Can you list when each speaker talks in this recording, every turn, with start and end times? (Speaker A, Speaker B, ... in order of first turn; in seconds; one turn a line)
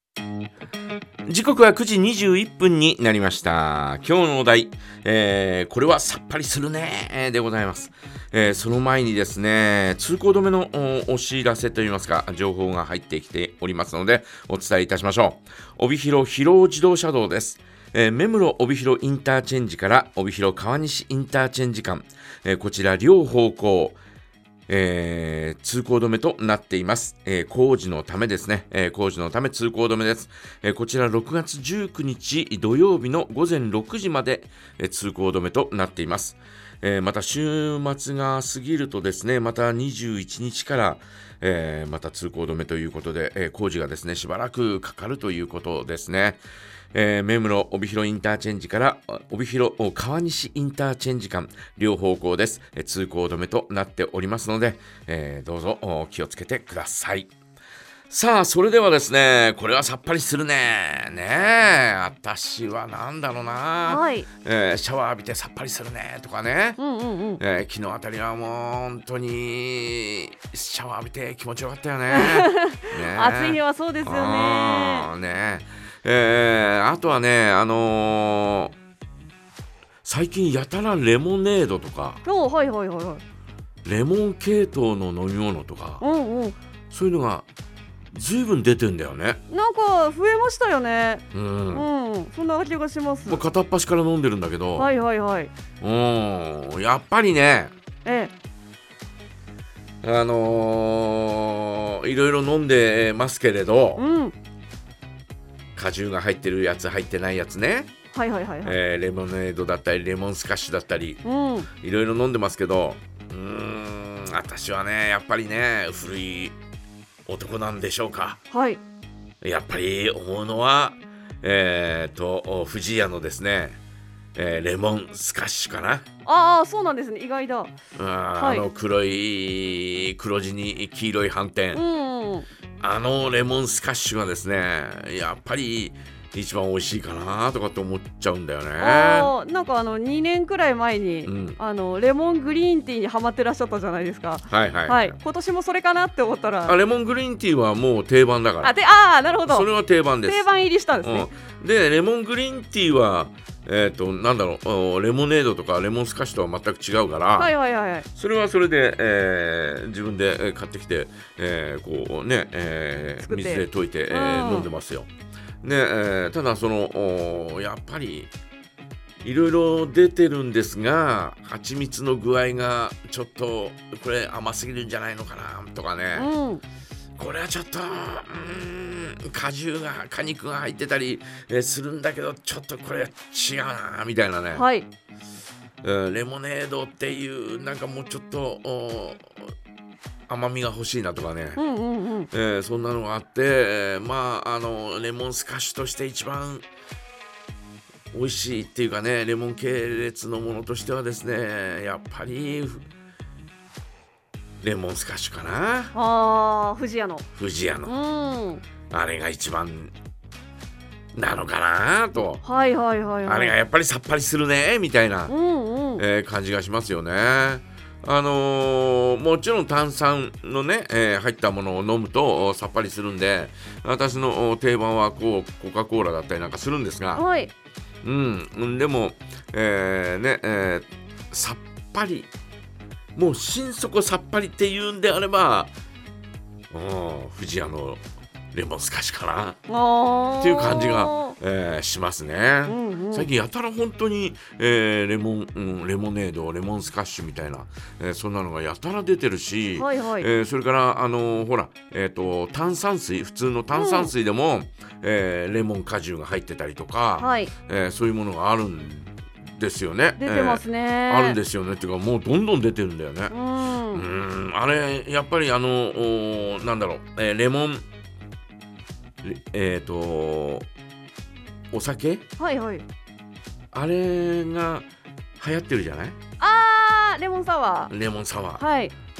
Speaker A: 1.2-24.0
Speaker A: 24.7-46.4
Speaker A: 46.9-57.3
Speaker A: 58.1-66.8
Speaker B: 63.9-64.3
Speaker B: 66.8-67.4
Speaker A: 67.4-78.7
Speaker B: 72.1-75.1
Speaker A: 80.0-82.2
Speaker B: 82.2-83.2
Speaker A: 83.8-86.0
Speaker B: 86.0-86.5
Speaker A: 86.9-87.5
Speaker A: 88.1-89.4
Speaker B: 89.5-93.4
Speaker A: 91.3-91.9
Speaker A: 93.2-94.9
Speaker B: 94.8-95.5
Speaker A: 95.8-97.7
Speaker B: 98.0-98.3
Speaker A: 100.0-104.0
Speaker B: 104.0-104.3
Speaker A: 105.7-107.9
Speaker B: 108.1-108.8
Speaker A: 108.6-111.2
Speaker B: 111.2-111.7
Speaker A: 111.7-116.5
Speaker A: 117.2-118.4
Speaker B: 118.5-118.8
Speaker A: 119.4-123.8
Speaker A: 124.3-126.0
Speaker B: 126.2-127.7
Speaker A: 127.9-131.8
Speaker B: 128.3-128.7
Speaker B: 131.7-132.5
Speaker A: 132.8-139.3
Speaker B: 138.8-146.8
Speaker A: 141.2-141.6
Speaker A: 144.5-145.2
Speaker A: 146.6-148.8
Speaker B: 148.6-151.3
Speaker A: 149.5-150.5
Speaker A: 151.0-157.5
Speaker B: 157.3-158.1
Speaker A: 158.1-165.1
Speaker B: 163.2-164.7
Speaker A: 165.6-168.3
Speaker A: 169.2-176.3
Speaker B: 176.1-176.6
Speaker A: 177.2-184.7
Speaker B: 184.5-184.9
Speaker A: 185.8-189.5
Speaker A: 190.3-191.6
Speaker B: 191.6-192.3
Speaker A: 192.3-196.6
Speaker A: 198.1-202.8
Speaker A: 204.6-205.9
Speaker B: 205.9-207.2
Speaker A: 207.3-208.0
Speaker B: 207.8-208.6
Speaker A: 208.9-209.9
Speaker A: 211.1-212.4
Speaker B: 212.2-213.6
Speaker A: 213.2-215.3
Speaker B: 215.3-216.0
Speaker A: 216.0-227.2
Speaker B: 227.1-227.5
Speaker A: 228.0-232.3
Speaker A: 233.1-235.8
Speaker A: 236.7-239.6
Speaker B: 239.7-241.4
Speaker A: 240.4-263.3
Speaker B: 242.7-243.3
Speaker B: 249.7-250.3
Speaker B: 253.7-254.1
Speaker B: 257.2-257.5
Speaker B: 260.2-261.4
Speaker B: 263.3-264.1
Speaker A: 263.9-267.8
Speaker A: 269.2-270.7
Speaker A: 271.7-272.2
Speaker B: 272.4-272.9
Speaker A: 273.7-274.9
Speaker A: 275.4-276.2
Speaker B: 276.4-277.9
Speaker A: 277.9-278.6
Speaker B: 278.6-278.9